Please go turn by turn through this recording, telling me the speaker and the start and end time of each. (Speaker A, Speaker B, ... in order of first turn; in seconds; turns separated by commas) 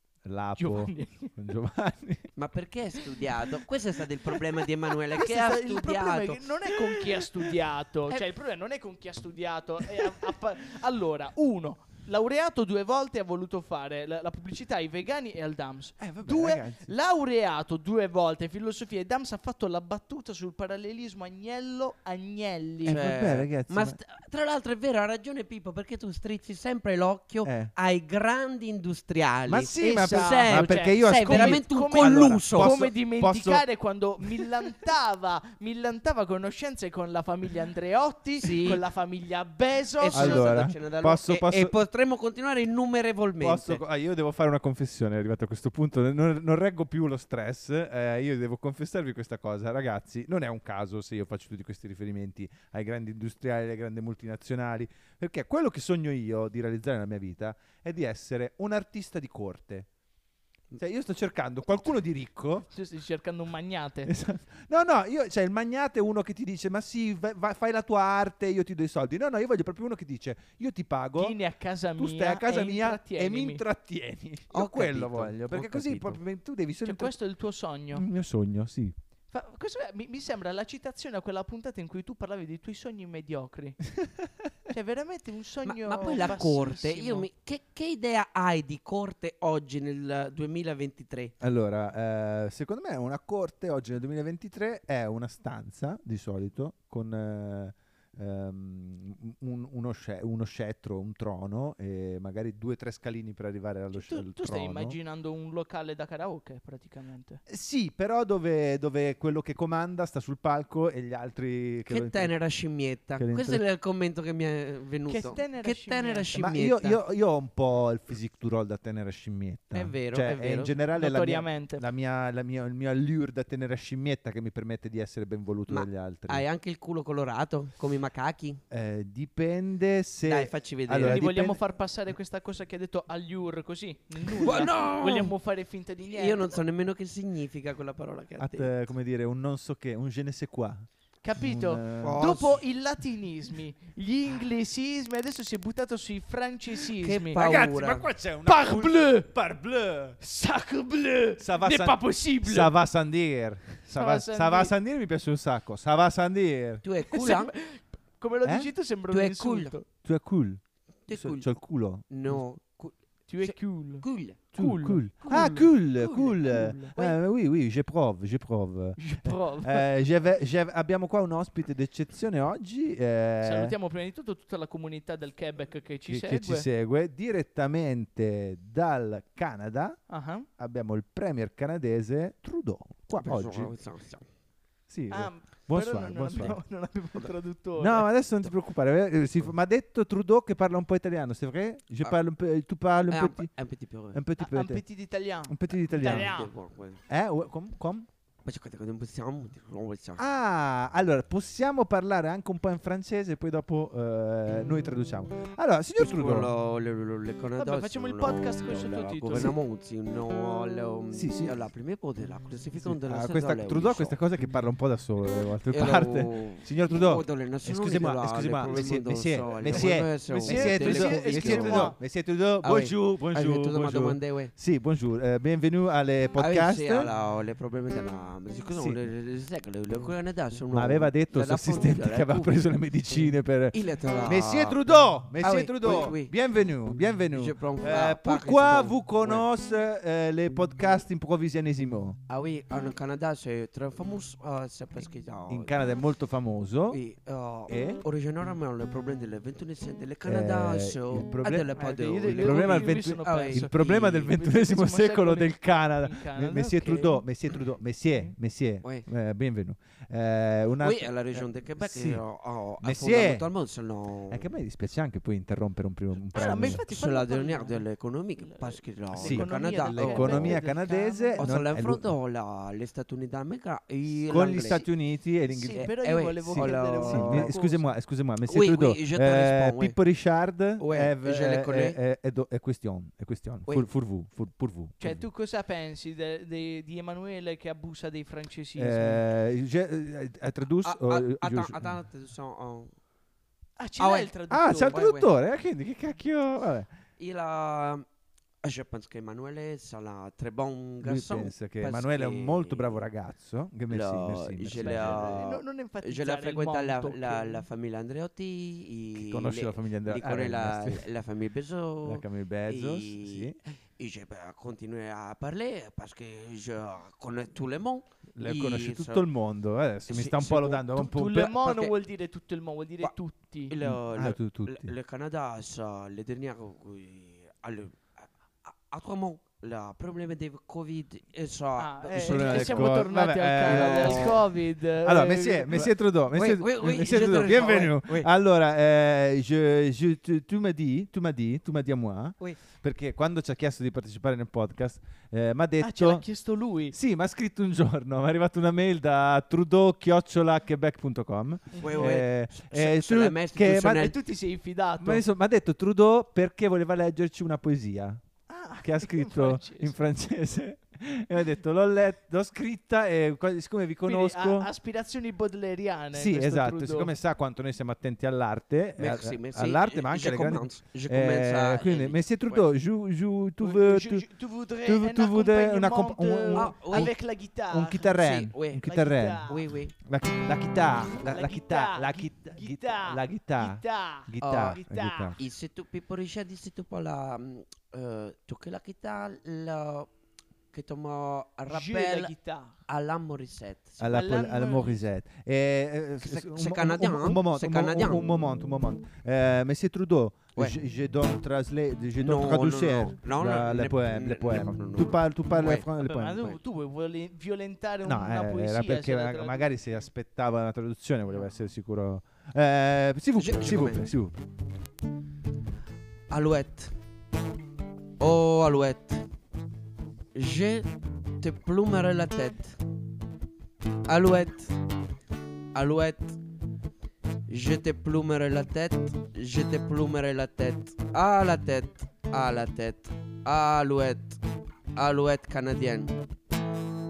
Speaker A: 0.2-2.3, Speaker B: 0.6-1.3, Speaker C: 2.3-6.5, Speaker B: 4.2-23.2, Speaker A: 6.9-7.3, Speaker A: 16.0-16.9, Speaker A: 22.9-24.0, Speaker C: 22.9-32.8, Speaker A: 27.4-27.7, Speaker A: 29.5-33.7, Speaker B: 29.8-40.6, Speaker A: 34.2-34.8, Speaker C: 38.4-38.9, Speaker C: 40.0-43.9, Speaker A: 40.1-41.8, Speaker A: 43.4-59.9, Speaker A: 60.8-62.7, Speaker B: 62.7-64.1, Speaker A: 64.0-71.4, Speaker B: 71.2-73.7, Speaker A: 72.0-77.2, Speaker C: 74.5-76.2, Speaker B: 76.8-78.1, Speaker A: 77.9-79.0, Speaker B: 79.3-83.8, Speaker B: 84.7-87.3, Speaker C: 85.6-91.3, Speaker A: 91.4-105.0, Speaker B: 103.9-107.4, Speaker A: 107.5-112.3, Speaker C: 111.9-117.0, Speaker A: 113.2-113.6, Speaker B: 115.1-116.3, Speaker A: 116.3-126.5, Speaker C: 119.7-120.9, Speaker B: 120.9-121.9, Speaker C: 125.7-128.6, Speaker A: 128.7-131.6, Speaker C: 130.3-131.3, Speaker B: 131.1-136.6, Speaker C: 134.4-135.4, Speaker C: 136.1-138.9, Speaker A: 138.4-142.3, Speaker B: 141.2-147.4, Speaker C: 142.0-142.6, Speaker C: 147.0-148.1, Speaker A: 147.4-150.2, Speaker B: 148.4-149.3, Speaker B: 150.2-152.8, Speaker A: 151.4-156.8, Speaker B: 153.8-154.8, Speaker C: 156.8-157.5, Speaker B: 157.1-159.8, Speaker A: 158.4-158.7, Speaker C: 159.1-159.8, Speaker A: 160.0-162.5, Speaker C: 161.1-161.5, Speaker C: 162.1-164.6, Speaker B: 163.3-167.2, Speaker A: 164.5-173.8, Speaker C: 165.2-167.0, Speaker B: 169.0-170.0, Speaker B: 173.4-176.7, Speaker A: 176.1-180.0, Speaker B: 180.1-180.5, Speaker A: 180.6-183.7, Speaker C: 183.2-184.2, Speaker A: 184.9-186.6, Speaker B: 185.1-188.1, Speaker A: 187.8-193.5, Speaker C: 193.1-194.3, Speaker A: 194.1-194.8, Speaker B: 194.4-196.5, Speaker A: 195.4-196.4, Speaker C: 196.2-197.0, Speaker A: 197.1-198.1, Speaker C: 198.4-200.2, Speaker A: 200.2-206.5, Speaker C: 206.0-214.2, Speaker B: 207.6-209.6, Speaker A: 209.3-209.6, Speaker A: 211.1-211.6, Speaker A: 212.8-227.1, Speaker C: 215.7-221.9, Speaker B: 219.7-222.0, Speaker C: 222.5-224.5, Speaker C: 226.3-236.4, Speaker A: 228.7-229.0, Speaker A: 230.7-242.2, Speaker C: 237.3-239.5, Speaker C: 242.3-245.9, Speaker A: 245.5-247.0, Speaker C: 246.9-254.3, Speaker A: 247.7-248.0, Speaker A: 250.2-251.7, Speaker B: 251.8-257.3, Speaker A: 252.3-262.2, Speaker C: 258.8-259.1, Speaker C: 260.8-264.5, Speaker A: 262.8-263.5, Speaker A: 264.3-266.9, Speaker B: 266.1-271.5, Speaker C: 266.8-270.6, Speaker A: 269.1-272.1, Speaker C: 271.4-274.9, Speaker A: 274.1-275.9, Speaker B: 275.5-277.9, Speaker C: 275.7-277.5, Speaker A: 276.4-285.2, Speaker C: 278.4-280.0, Speaker C: 280.8-282.0, Speaker B: 285.0-289.3, Speaker A: 288.8-292.0, Speaker C: 290.8-292.9, Speaker B: 293.8-295.0, Speaker C: 294.0-294.4, Speaker A: 294.5-296.9, Speaker C: 294.9-295.3, Speaker C: 297.2-298.1, Speaker C: 298.6-303.1, Speaker A: 301.0-305.4, Speaker C: 303.9-319.3, Speaker B: 304.8-307.6, Speaker A: 309.1-311.1, Speaker A: 312.0-313.6, Speaker A: 318.4-321.6, Speaker C: 320.1-320.9, Speaker B: 320.9-323.8, Speaker C: 321.6-322.0, Speaker C: 323.0-333.1, Speaker A: 323.8-324.9, Speaker B: 331.8-335.9, Speaker A: 332.1-346.3, Speaker C: 333.6-334.5, Speaker C: 336.3-338.3, Speaker B: 345.8-347.0, Speaker A: 346.9-354.0, Speaker C: 351.8-354.2, Speaker B: 351.8-352.2, Speaker B: 353.8-355.2, Speaker A: 355.0-358.2, Speaker B: 358.5-360.0, Speaker A: 358.8-364.7, Speaker B: 364.0-367.2, Speaker A: 366.1-374.3, Speaker C: 369.0-372.7, Speaker B: 373.6-378.2, Speaker A: 374.8-377.2, Speaker C: 376.5-377.1, Speaker A: 377.7-385.4, Speaker C: 378.2-378.9, Speaker B: 378.8-379.6, Speaker C: 379.5-380.0, Speaker B: 381.2-385.4, Speaker C: 384.4-384.8, Speaker C: 385.4-390.1, Speaker C: 390.7-392.3, Speaker B: 391.7-392.8, Speaker C: 392.9-394.1, Speaker A: 394.0-406.4, Speaker B: 394.1-395.1, Speaker C: 396.2-398.3, Speaker C: 400.6-400.8, Speaker C: 402.2-405.9, Speaker B: 405.5-409.9, Speaker A: 408.0-414.4, Speaker B: 411.4-411.6, Speaker C: 413.4-414.1, Speaker C: 416.3-416.9, Speaker C: 418.2-419.2, Speaker C: 420.3-422.8, Speaker C: 424.1-424.8, Speaker C: 425.7-426.4, Speaker C: 427.5-434.4, Speaker C: 434.9-436.2